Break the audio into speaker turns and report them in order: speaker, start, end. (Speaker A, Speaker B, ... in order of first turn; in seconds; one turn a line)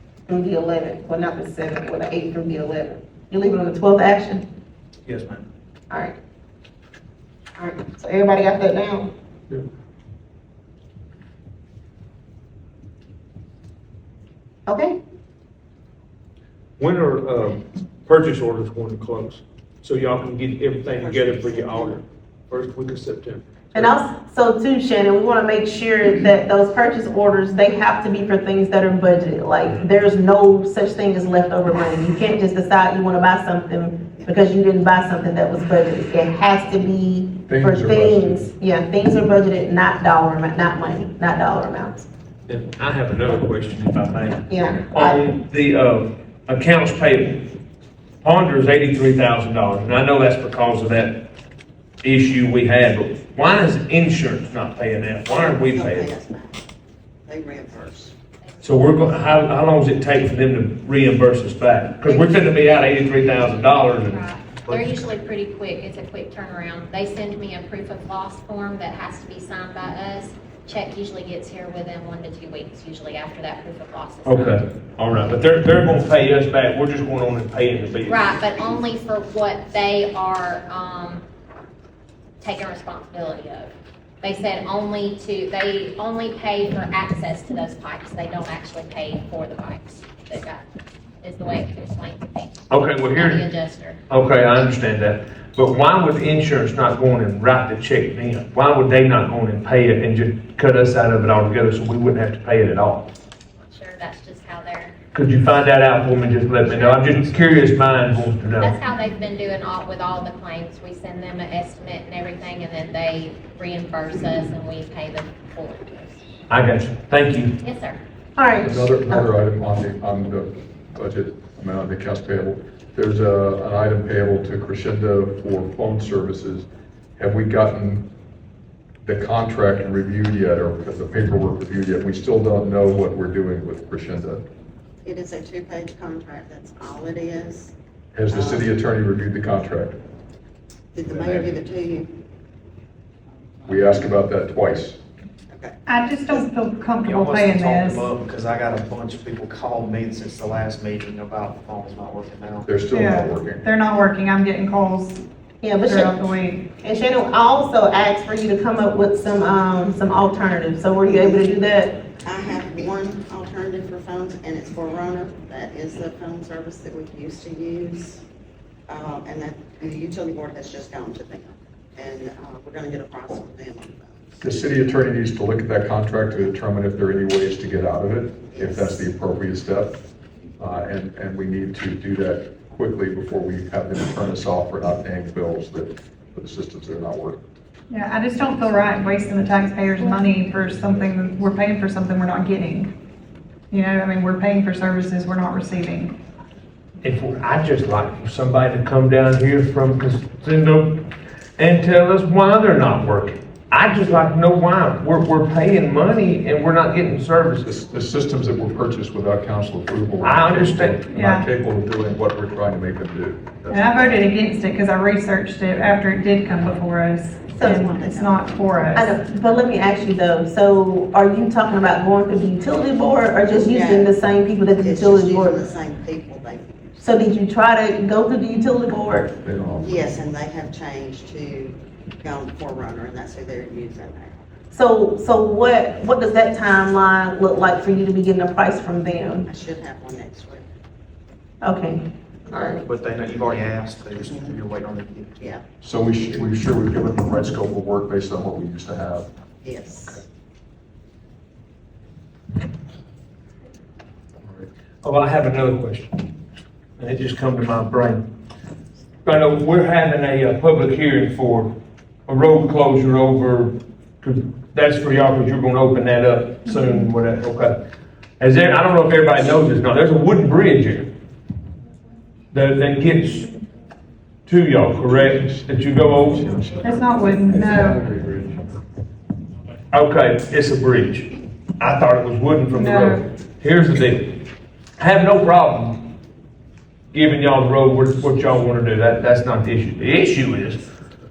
Speaker A: 0.3-4.4
Speaker B: 5.1-5.4
Speaker A: 5.9-6.2
Speaker A: 7.6-9.1
Speaker A: 14.7-15.0
Speaker C: 16.8-23.9
Speaker D: 21.0-22.0
Speaker A: 23.7-42.1
Speaker E: 37.5-38.5
Speaker C: 42.5-47.5
Speaker A: 44.5-45.2
Speaker C: 48.2-51.2
Speaker C: 52.0-56.1
Speaker D: 55.3-56.6
Speaker D: 57.2-58.1
Speaker C: 58.6-64.2
Speaker F: 64.3-74.2
Speaker B: 64.7-65.0
Speaker C: 74.2-78.4
Speaker F: 78.4-81.2
Speaker F: 82.4-83.7
Speaker F: 84.2-90.6
Speaker F: 91.2-92.5
Speaker C: 92.7-93.4
Speaker F: 93.2-94.0
Speaker C: 94.1-103.1
Speaker F: 103.7-104.9
Speaker C: 105.1-108.8
Speaker B: 106.7-107.3
Speaker F: 108.9-116.2
Speaker C: 116.5-117.5
Speaker F: 117.6-118.0
Speaker A: 118.4-119.3
Speaker E: 118.6-128.1
Speaker E: 129.0-134.4
Speaker D: 135.0-137.7
Speaker E: 138.1-140.0
Speaker D: 138.3-138.7
Speaker D: 140.9-142.1
Speaker E: 143.6-145.0
Speaker D: 145.5-145.8
Speaker G: 145.9-148.0
Speaker B: 147.0-152.7
Speaker E: 152.7-153.6
Speaker G: 152.9-155.2
Speaker A: 155.6-156.2
Speaker G: 155.8-156.7
Speaker A: 156.8-162.0
Speaker D: 162.2-168.2
Speaker D: 168.9-174.2
Speaker E: 174.4-180.0
Speaker D: 178.5-179.1
Speaker E: 180.6-187.4
Speaker G: 187.9-192.9
Speaker G: 193.7-196.1
Speaker C: 197.0-201.1
Speaker C: 201.6-207.7
Speaker E: 207.6-214.2
Speaker C: 210.2-211.0
Speaker G: 211.1-211.5
Speaker G: 213.7-219.2
Speaker A: 217.5-217.8
Speaker D: 217.6-218.7
Speaker A: 218.9-225.6
Speaker D: 223.6-224.1
Speaker D: 224.8-227.0
Speaker A: 227.0-229.3
Speaker E: 229.4-230.1
Speaker D: 229.8-234.4
Speaker A: 234.7-239.5
Speaker D: 239.5-240.7
Speaker A: 241.6-242.8
Speaker B: 242.8-245.4
Speaker E: 245.8-249.3
Speaker D: 249.6-250.2
Speaker C: 255.0-256.2
Speaker C: 257.0-258.3
Speaker C: 259.2-261.7
Speaker C: 262.3-267.7
Speaker C: 268.4-271.1
Speaker C: 272.5-273.5
Speaker C: 274.5-276.5
Speaker E: 276.3-278.6
Speaker G: 276.8-278.0
Speaker C: 279.9-286.1
Speaker G: 282.7-283.2
Speaker C: 287.1-290.8